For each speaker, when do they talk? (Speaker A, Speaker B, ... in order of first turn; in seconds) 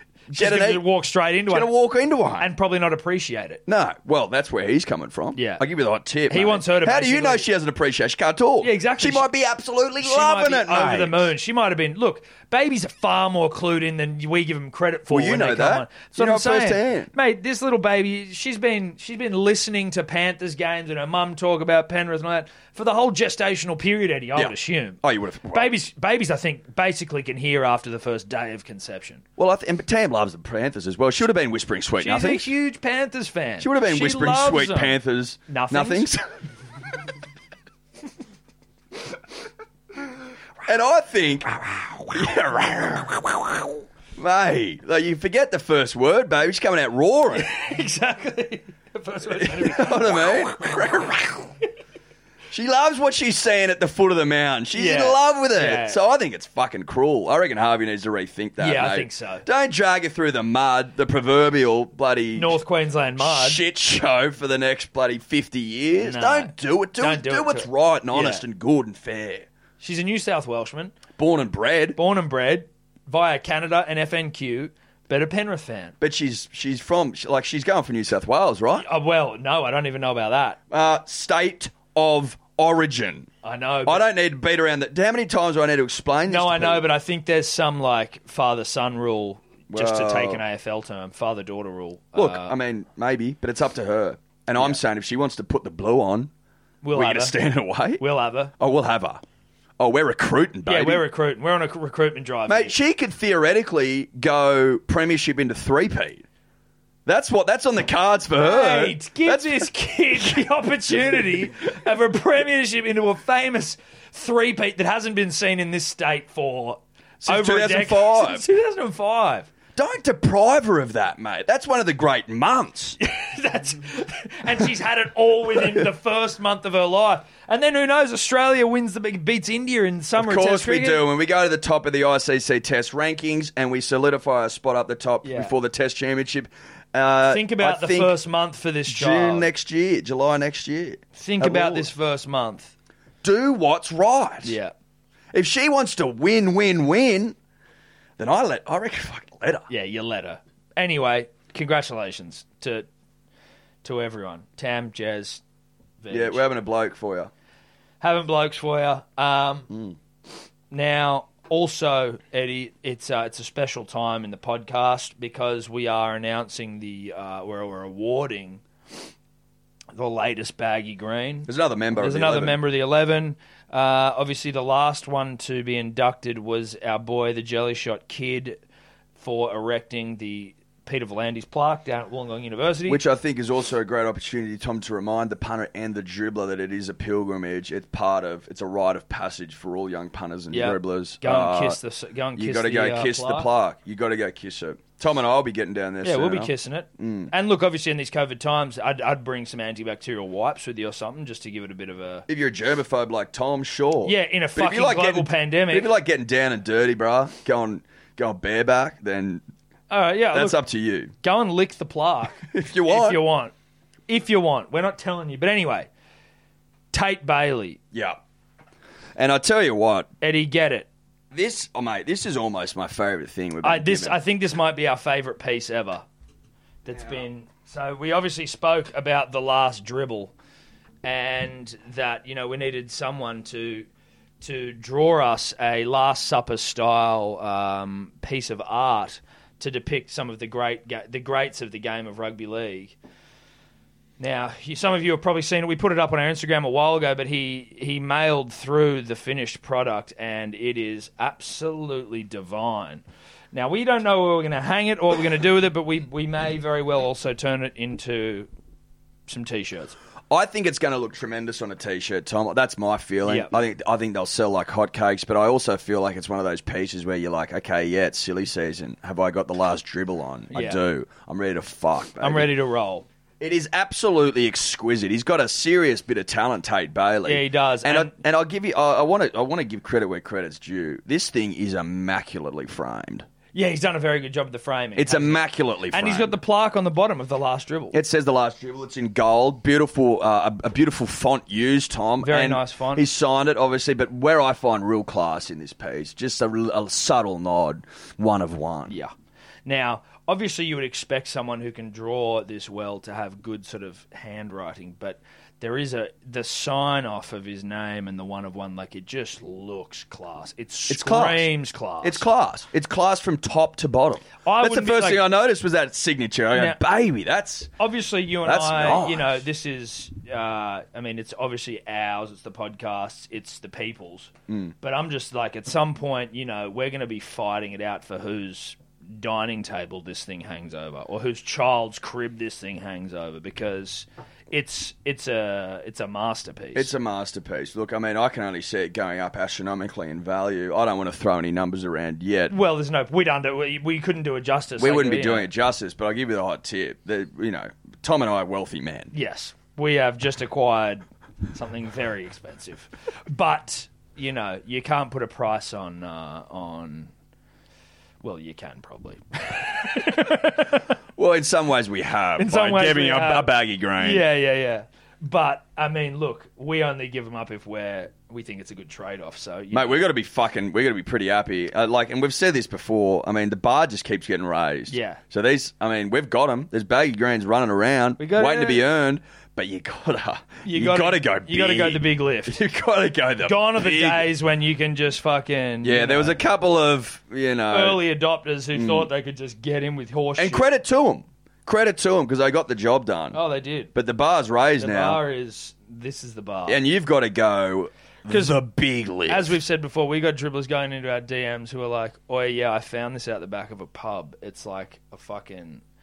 Speaker A: 0.3-0.8, 1.5-2.5, 3.7-11.3, 15.1-17.1, 24.3-25.7, 29.4-32.5, 33.6-36.2, 40.6-47.5, 49.3-51.5, 52.5-62.6, 63.2-69.5, 71.2-72.0, 76.0-78.8, 80.7-83.3, 83.8-86.8, 89.7-90.4, 92.1-96.3, 96.9-98.0, 98.6-99.2, 99.8-101.0, 102.5-106.2, 107.0-109.7, 110.9-111.4, 117.2-118.4, 119.8-123.0, 130.2-138.2, 138.9-141.9, 143.2-144.6, 145.3-147.3, 148.2-149.7, 156.1-157.3, 159.7-160.0, 171.5-172.6, 182.9-191.8, 192.3-197.3, 202.3-209.4, 210.3-211.1, 212.5-213.2, 217.9-218.2, 219.2-220.1, 221.3-224.2, 260.3-272.5, 273.4-283.2, 284.9-286.4, 287.9-298.9, 310.9-311.5, 312.0-317.7, 318.4-319.4, 324.5-324.7, 336.7-342.5, 344.8-349.1, 361.2-364.2, 369.7-384.3, 385.8-388.0, 388.7-389.1, 390.4-393.4, 393.9-395.2, 396.7-399.6
Speaker B: 0.3-1.7, 2.4-3.6, 5.3-5.6, 6.3-7.5, 8.6-9.3, 10.0-25.0, 25.5-29.2, 32.0-36.1, 47.4-50.7, 54.7-56.0, 58.6-59.4, 62.3-63.6, 66.0-68.4, 69.8-70.9, 72.0-75.9, 78.7-80.6, 83.4-84.0, 86.3-92.5, 96.8-97.3, 98.0-98.5, 100.7-102.7, 108.3-119.5, 123.0-131.0, 135.2-135.5, 137.3-139.5, 141.1-142.7, 144.4-144.7, 149.7-152.9, 153.8-155.4, 156.0-156.4, 158.0-159.7, 160.7-168.6, 169.9-178.6, 179.2-183.0, 190.5-193.5, 196.0-202.2, 204.0-205.9, 209.9-210.6, 211.2-213.5, 214.1-215.9, 216.9-217.8, 220.2-220.9, 223.6-226.0, 226.8-230.3, 231.0-233.9, 234.4-242.9, 244.2-258.5, 259.3-260.0, 263.2-263.6, 270.5-270.8, 272.2-273.0, 277.2-278.1, 283.5-288.0, 292.2-293.1, 299.6-312.2, 314.4-315.2, 317.8-336.9, 342.5-345.5, 349.1-357.1, 358.2-360.9, 362.4-370.0, 374.9-375.2, 378.2-378.8, 380.6-382.6, 383.4-386.4, 387.7-390.7, 393.3-393.9, 394.8-396.8, 398.3-398.6, 399.3-405.8